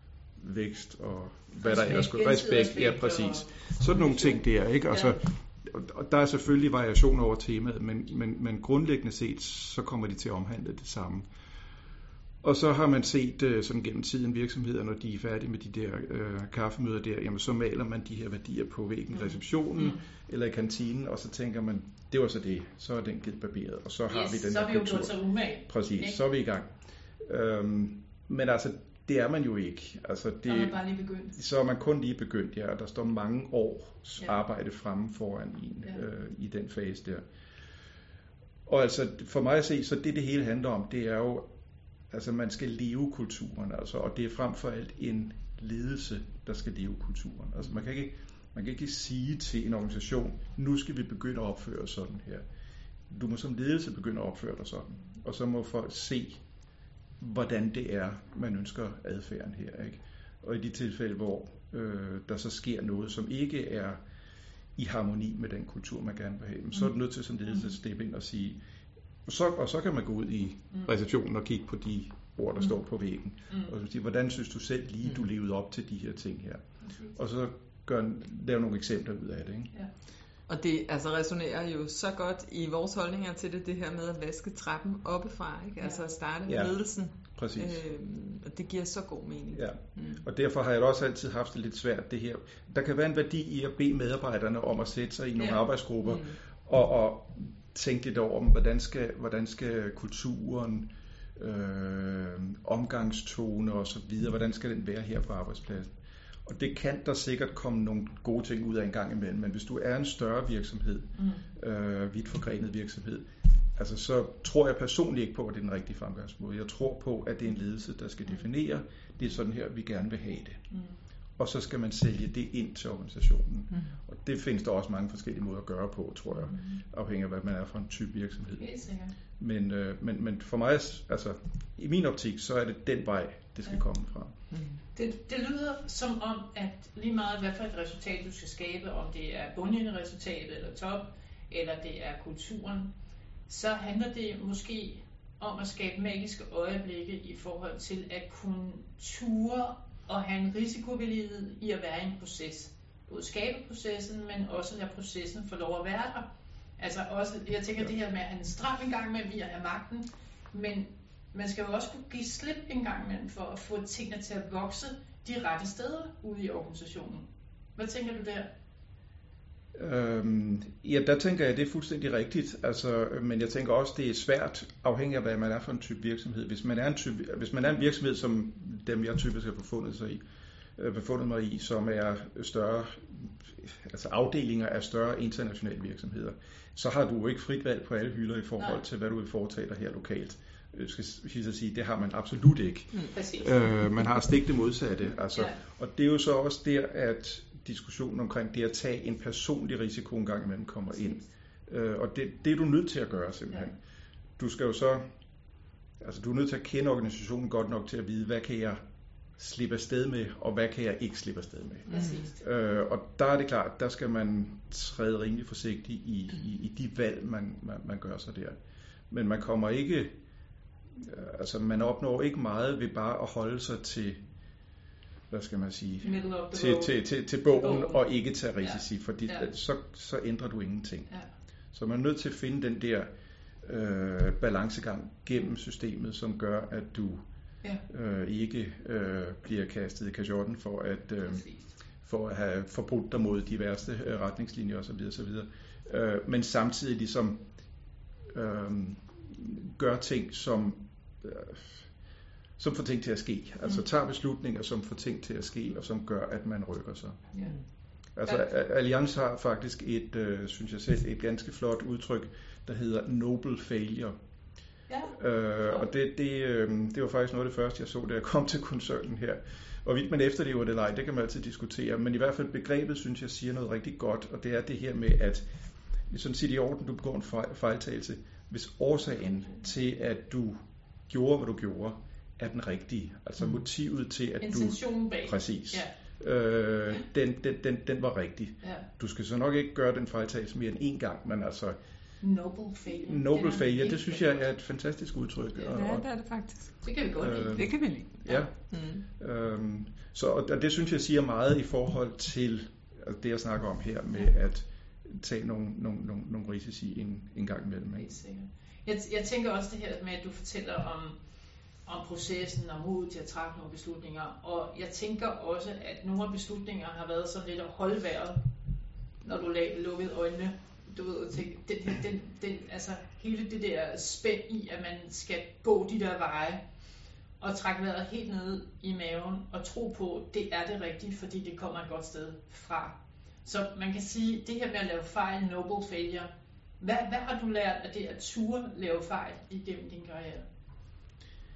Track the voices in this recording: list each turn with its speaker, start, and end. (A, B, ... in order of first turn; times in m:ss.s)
0:00.4-0:11.3 A
0:01.6-0:05.2 B
0:12.4-0:37.2 A
0:24.1-0:26.2 B
0:30.5-0:31.4 B
0:38.7-0:41.5 A
0:42.1-0:52.5 A
0:53.1-0:56.4 A
0:57.2-1:04.0 A
1:04.8-1:08.6 A
1:09.2-1:16.6 A
1:16.8-1:17.2 B
1:17.2-1:19.7 A
1:20.5-1:30.2 C
1:26.5-1:27.8 A
1:29.5-2:00.7 A
1:51.2-1:51.4 B
2:01.4-2:08.7 A
2:06.5-2:06.8 B
2:08.6-2:09.1 B
2:09.4-2:14.4 A
2:15.0-2:22.9 B
2:23.5-2:48.5 B
2:49.7-3:00.2 A
3:00.8-3:23.8 A
3:13.1-3:13.5 B
3:24.4-3:25.0 A
3:26.0-3:28.8 A
3:29.4-3:38.6 A
3:31.9-3:32.3 B
3:39.1-3:40.2 A
3:40.9-3:44.2 A
3:45.3-3:51.1 A
3:46.0-3:48.0 B
3:48.6-3:49.5 B
3:51.7-3:53.1 A
3:53.6-3:57.2 A
3:57.9-4:07.4 A
4:01.3-4:01.6 B
4:08.3-4:11.9 A
4:12.6-4:17.3 A
4:18.1-4:24.2 A
4:24.9-4:25.8 B
4:25.1-4:35.4 A
4:36.1-4:51.8 A
4:44.4-4:45.9 B
4:52.2-4:54.4 B
4:52.9-4:56.1 A
4:55.7-4:56.8 C
4:56.8-4:58.5 B
4:57.2-5:08.1 A
4:57.6-4:59.0 C
5:08.0-5:11.2 B
5:11.8-5:18.4 B
5:19.2-5:26.6 B
5:27.4-5:40.5 B